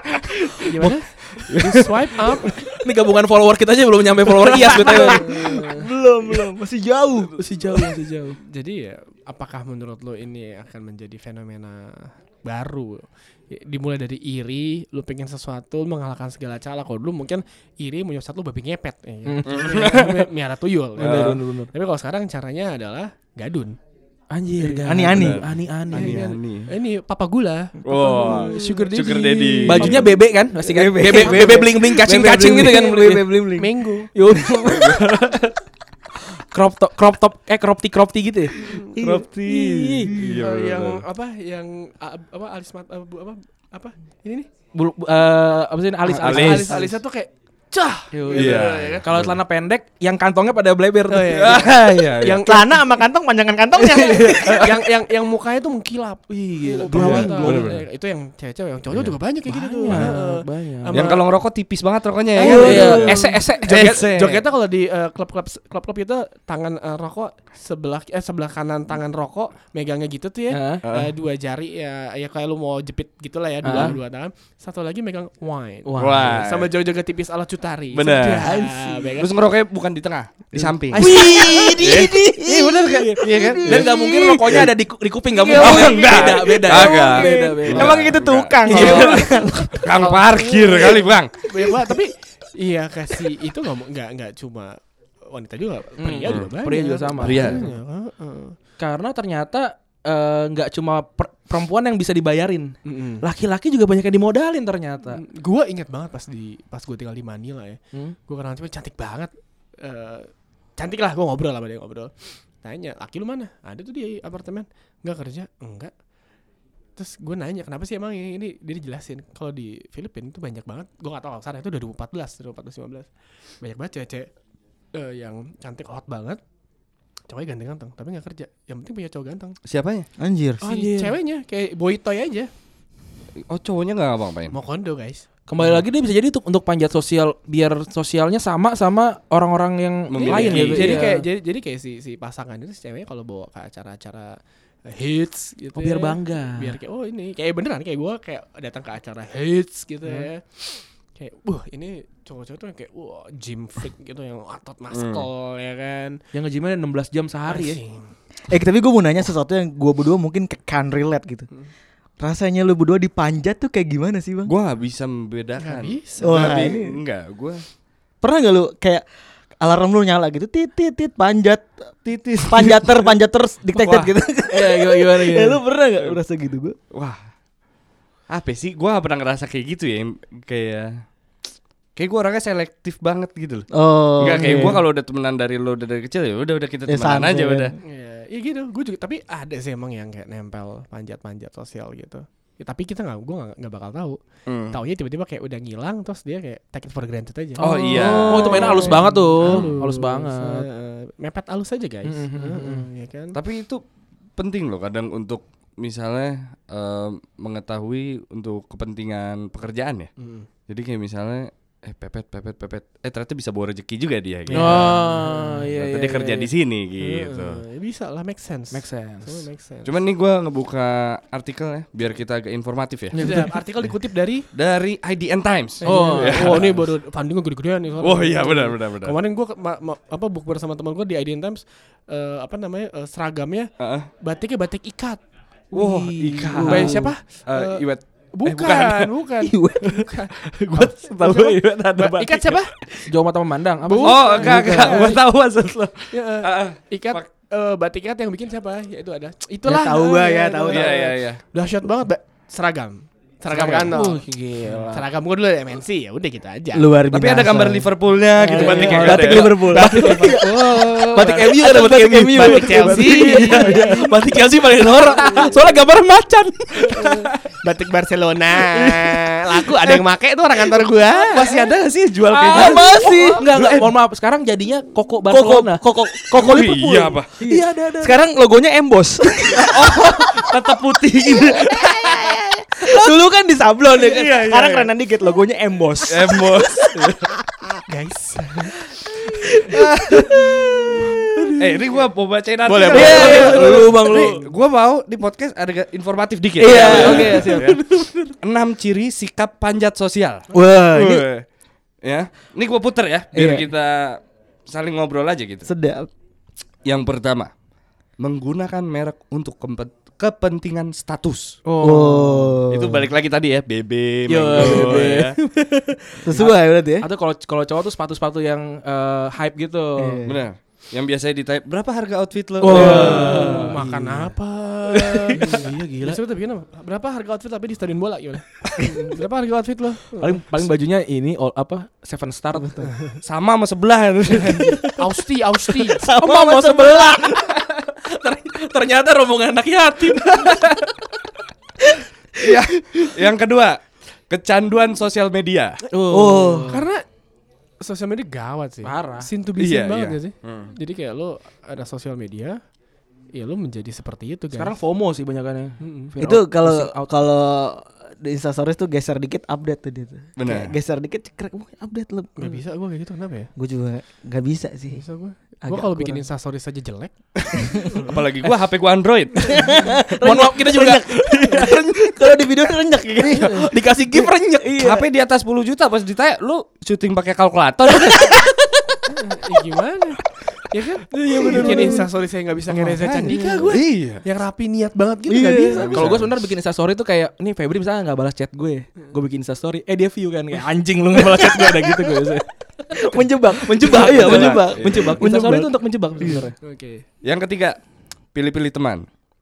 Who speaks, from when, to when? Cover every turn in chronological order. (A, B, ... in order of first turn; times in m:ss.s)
0:00.6-0:02.6 A
0:00.6-0:01.0 B
0:01.5-0:01.9 C
0:02.6-0:05.7 B
0:04.4-0:07.9 D
0:04.6-0:05.6 A
0:07.4-0:08.4 B
0:08.4-0:23.8 A
0:19.3-0:19.9 B
0:19.5-0:20.2 C
0:21.0-0:21.7 B
0:21.0-0:21.4 C
0:24.3-0:26.3 B
0:24.7-0:25.4 D
0:25.1-0:26.7 C
0:25.9-0:30.0 A
0:27.8-0:30.1 C
0:28.3-0:28.9 B
0:29.6-0:33.5 B
0:30.7-0:35.2 D
0:31.1-0:31.6 A
0:33.6-0:34.1 A
0:34.1-0:35.0 B
0:34.7-0:35.3 C
0:36.3-0:38.7 B
0:38.5-0:39.0 A
0:39.0-0:41.0 C
0:39.0-0:40.4 D
0:39.5-0:40.3 B
0:40.4-0:44.5 A
0:44.7-0:47.0 B
0:46.1-0:46.9 C
0:46.2-0:49.0 A
0:48.1-0:51.6 B
0:48.3-0:49.4 C
0:51.1-0:53.0 A
0:51.4-0:52.4 C
0:52.4-0:54.7 D
0:53.8-1:01.3 A
0:56.3-0:57.7 B
0:56.9-0:57.8 C
0:59.5-1:01.0 B
1:00.9-1:04.4 C
1:02.4-1:19.3 A
1:02.4-1:04.0 B
1:02.4-1:03.3 D
1:10.5-1:10.8 B
1:10.8-1:11.1 C
1:13.6-1:14.0 B
1:15.8-1:16.4 B
1:16.0-1:16.7 C
1:17.9-1:18.6 C
1:18.4-1:19.1 B
1:19.2-1:21.1 C
1:20.6-1:29.2 B
1:20.9-1:24.8 D
1:21.8-1:23.9 C
1:25.3-1:29.9 D
1:25.5-1:31.3 C
1:28.8-1:29.2 A
1:29.9-1:34.8 A
1:31.6-1:31.9 D
1:35.3-1:38.6 A
1:36.0-1:37.7 B
1:36.3-1:36.5 C
1:37.2-1:37.7 C
1:38.8-1:45.2 B
1:42.8-1:43.2 A
1:45.1-1:55.9 A
1:57.0-2:04.3 A
2:04.9-2:06.4 A
2:07.3-2:09.6 A
2:09.6-2:10.1 C
2:10.2-2:10.6 D
2:10.6-2:11.2 B
2:10.6-2:12.5 A
2:13.4-2:14.6 C
2:14.5-2:15.3 A
2:15.5-2:21.2 B
2:20.1-2:21.1 C
2:20.2-2:36.2 A
2:25.8-2:26.8 B
2:34.9-2:35.3 C
2:36.3-2:37.8 B
2:37.5-2:38.1 A
2:38.5-2:41.5 D
2:42.2-2:44.5 D
2:44.5-2:47.6 C
2:45.6-2:46.6 A
2:46.2-2:47.0 D
2:48.2-2:49.0 D
2:49.6-2:56.8 D
2:52.1-2:53.1 C
2:53.7-2:54.1 C
2:54.5-2:55.6 B
2:56.9-2:57.2 C
2:58.3-3:01.0 C
3:02.0-3:07.8 C
3:03.7-3:04.8 D
3:06.9-3:07.8 D
3:07.8-3:14.2 A
3:14.5-3:14.8 C
3:14.7-3:23.4 A
3:17.6-3:20.6 B
3:17.6-3:19.7 C
3:22.0-3:22.9 B
3:23.4-3:23.8 C
3:24.4-3:30.1 C
3:30.2-3:30.5 A
3:30.7-3:37.6 C
3:34.5-3:36.5 B
3:34.5-3:34.9 A
3:37.0-3:39.9 A
3:38.7-3:39.4 B
3:39.8-3:43.2 C
3:43.1-3:43.5 B
3:43.1-3:44.5 A
3:44.5-3:46.7 C
3:45.8-3:55.2 A
3:45.8-3:46.8 B
3:48.0-3:49.2 C
3:53.8-3:54.1 C
3:55.7-3:57.1 B
3:55.7-3:59.2 C
3:56.6-4:00.3 A
3:59.4-4:01.8 D
4:00.8-4:05.2 B
4:02.0-4:02.8 A
4:03.8-4:05.2 A
4:04.0-4:07.3 C
4:04.4-4:05.2 D
4:06.1-4:16.9 A
4:09.7-4:10.9 D
4:10.7-4:11.4 C
4:13.5-4:15.0 B
4:16.7-4:20.4 D
4:17.1-4:19.7 C
4:18.6-4:27.0 B
4:18.6-4:24.1 A
4:21.2-4:23.9 D
4:25.1-4:25.5 A
4:26.8-4:31.6 A
4:30.7-4:34.0 C
4:32.3-4:38.2 B
4:32.5-4:33.5 D
4:35.3-4:36.6 D
4:36.3-4:37.4 C
4:37.4-4:40.6 D
4:39.6-4:42.0 C
4:41.3-4:46.7 D
4:43.9-4:44.9 C
4:46.0-4:47.3 C
4:47.9-4:48.8 A
4:49.2-4:51.5 D
4:51.6-4:57.8 C
4:52.6-4:53.9 A
4:52.9-4:54.5 D
4:53.2-4:53.9 B
4:56.6-4:58.3 D
4:56.7-4:57.7 A
4:56.9-4:57.7 B
4:58.4-5:01.4 C
5:00.5-5:01.3 D
5:02.0-5:05.7 C
5:03.3-5:03.7 D
5:05.6-5:06.1 D
5:06.8-5:07.5 C
5:08.2-5:11.6 C
5:11.7-5:12.6 B
5:11.8-5:13.1 D
5:12.7-5:15.4 C
5:14.3-5:15.4 B
5:14.6-5:17.1 D
5:16.3-5:20.2 B
5:20.0-5:20.4 D
5:20.2-5:23.4 C
5:22.6-5:24.3 B
5:22.7-5:23.7 D
5:22.7-5:30.4 A
5:25.3-5:26.2 B
5:30.2-5:32.9 B
5:33.2-5:34.8 C
5:34.3-5:36.0 A
5:35.9-5:37.4 D
5:36.0-5:40.9 B
5:42.4-5:45.8 C
5:45.9-5:46.9 B
5:46.1-5:46.8 D
5:46.7-5:47.0 A
5:47.8-5:52.6 A
5:48.8-5:49.3 B
5:49.6-5:50.7 C
5:53.4-5:54.8 A
5:54.5-5:57.1 B
5:55.8-5:56.1 A
5:56.2-6:02.6 D
6:00.4-6:00.8 C
6:02.4-6:03.5 A
6:03.6-6:05.0 D
6:04.9-6:07.9 A
6:05.6-6:06.2 D
6:07.6-6:08.0 D
6:08.0-6:09.5 C
6:09.4-6:14.3 D
6:09.5-6:15.0 B
6:14.8-6:18.5 C
6:19.1-6:26.2 A
6:21.1-6:22.1 B
6:21.3-6:21.8 D
6:22.7-6:24.2 C
6:25.3-6:25.9 D
6:25.8-6:26.4 C
6:25.9-6:36.5 B
6:31.0-6:32.4 D
6:32.9-6:36.5 D
6:33.8-6:35.2 C
6:36.6-6:37.0 A
6:37.2-6:37.8 C
6:38.3-6:39.1 C